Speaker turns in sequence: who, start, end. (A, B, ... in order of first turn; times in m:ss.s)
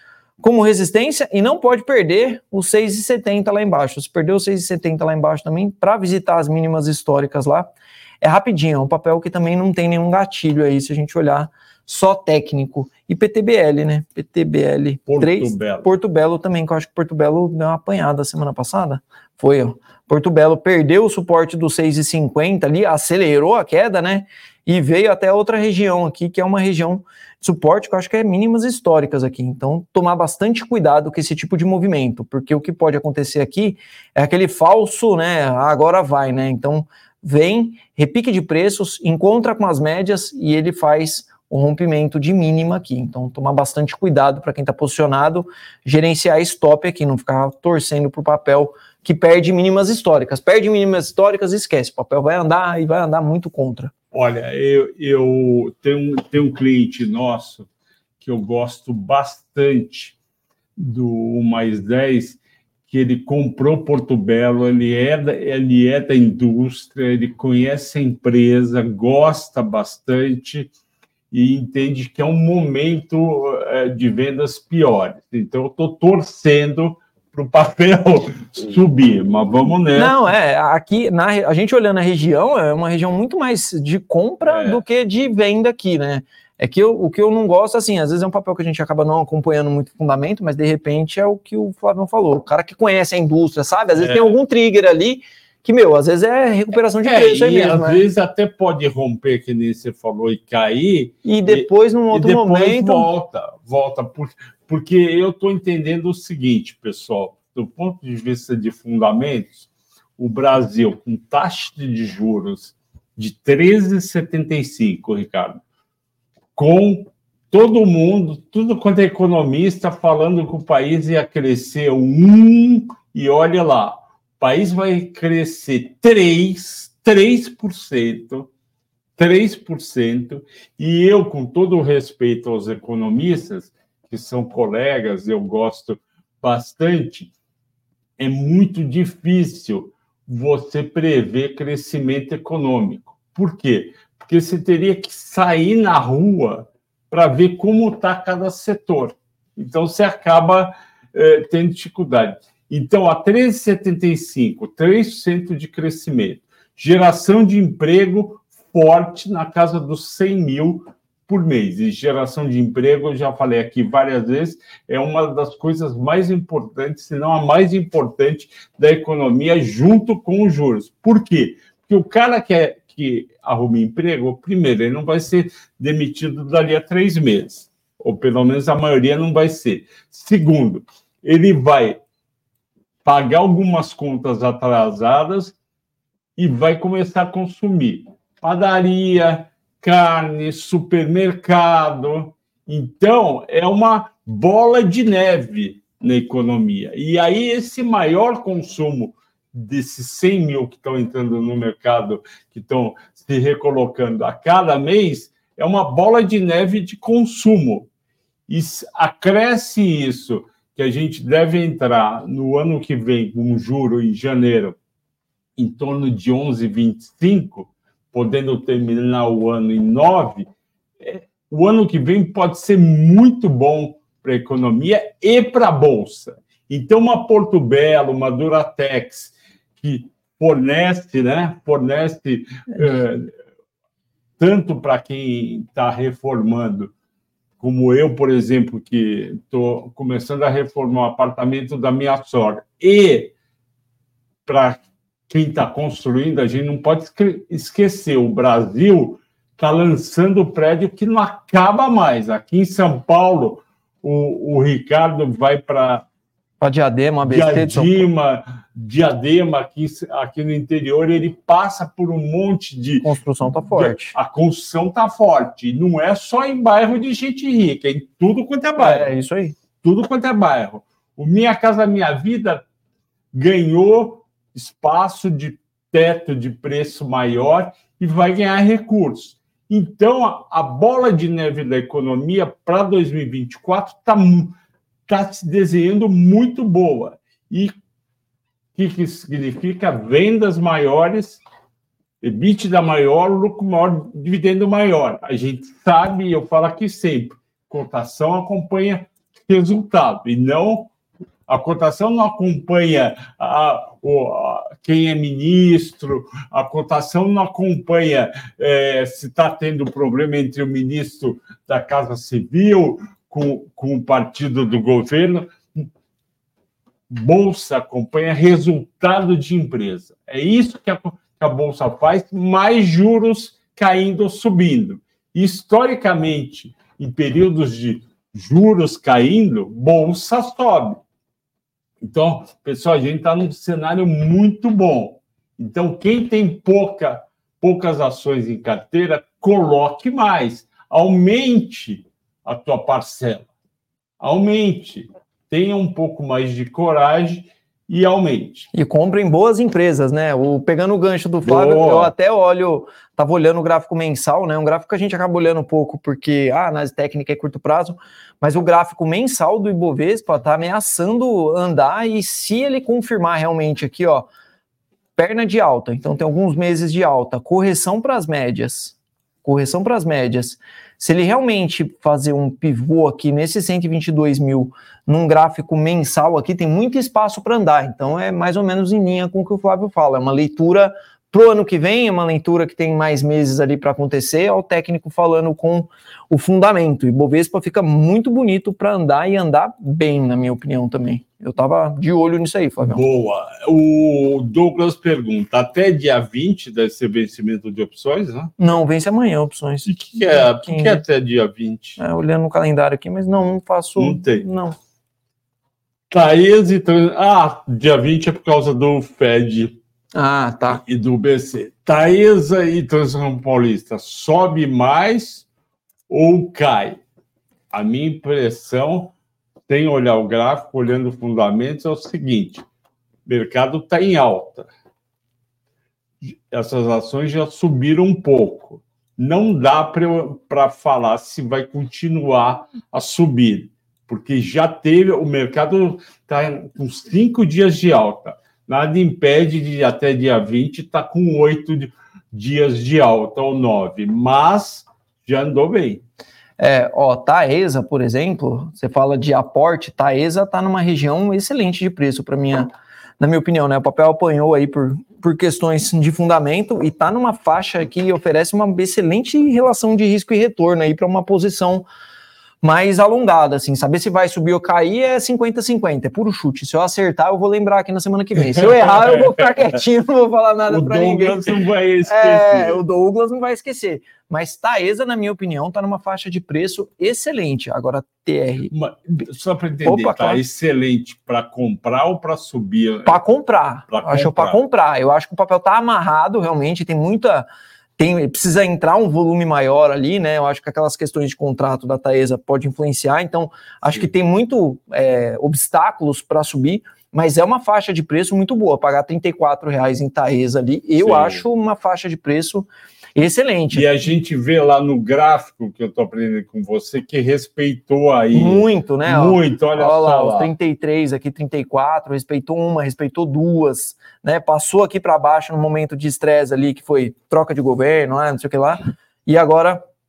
0:00.4-0:07.7 A
0:08.2-0:53.9 A
0:15.1-0:15.9 B
0:54.1-0:57.7 B
0:58.2-1:00.2 B
1:00.8-1:10.7 B
1:11.3-1:20.2 B
1:20.0-1:38.0 A
1:24.4-1:24.8 B
1:34.0-1:34.3 B
1:37.0-1:55.6 B
1:41.2-1:43.1 A
1:56.6-2:08.5 B
2:09.2-2:17.3 B
2:18.2-3:02.0 B
3:03.0-3:05.6 B
3:06.4-3:27.9 B
3:28.5-3:34.8 B
3:35.6-3:40.5 B
3:41.0-3:53.3 B
3:54.4-3:56.9 B
3:57.6-4:03.3 B
4:04.5-4:16.1 B
4:16.6-4:18.1 A
4:17.2-4:23.1 B
4:23.0-4:24.2 A
4:23.7-4:29.1 B
4:28.8-4:29.6 A
4:29.8-4:32.6 B
4:33.3-4:44.5 B
4:45.1-4:47.7 B
4:48.8-4:51.4 B
4:52.2-5:00.9 B
5:01.5-5:15.9 B
5:17.1-5:31.0 B
5:32.0-5:43.5 B
5:44.2-5:48.7 B
5:48.7-6:04.3 A
5:51.4-5:52.1 B
6:05.2-6:33.0 A
6:32.8-6:38.5 B
6:38.6-6:41.0 A
6:39.8-6:42.0 B
6:42.0-6:44.8 A
6:44.0-6:44.4 B
6:46.1-6:49.8 B
6:50.2-6:50.8 A
6:50.7-6:55.5 B
6:56.1-6:57.0 B
6:57.7-6:59.2 B
6:59.7-7:02.6 B
7:03.3-7:04.7 B
7:06.2-7:26.0 B
7:26.6-7:41.9 A
7:42.6-7:58.7 A
7:48.4-7:49.8 B
7:50.7-7:52.8 B
7:58.7-8:03.2 B
7:59.8-8:00.4 A
8:03.0-8:07.5 A
8:03.9-8:04.6 B
8:08.0-8:23.9 A
8:21.0-8:21.4 B
8:23.7-8:30.5 B
8:28.3-8:39.8 A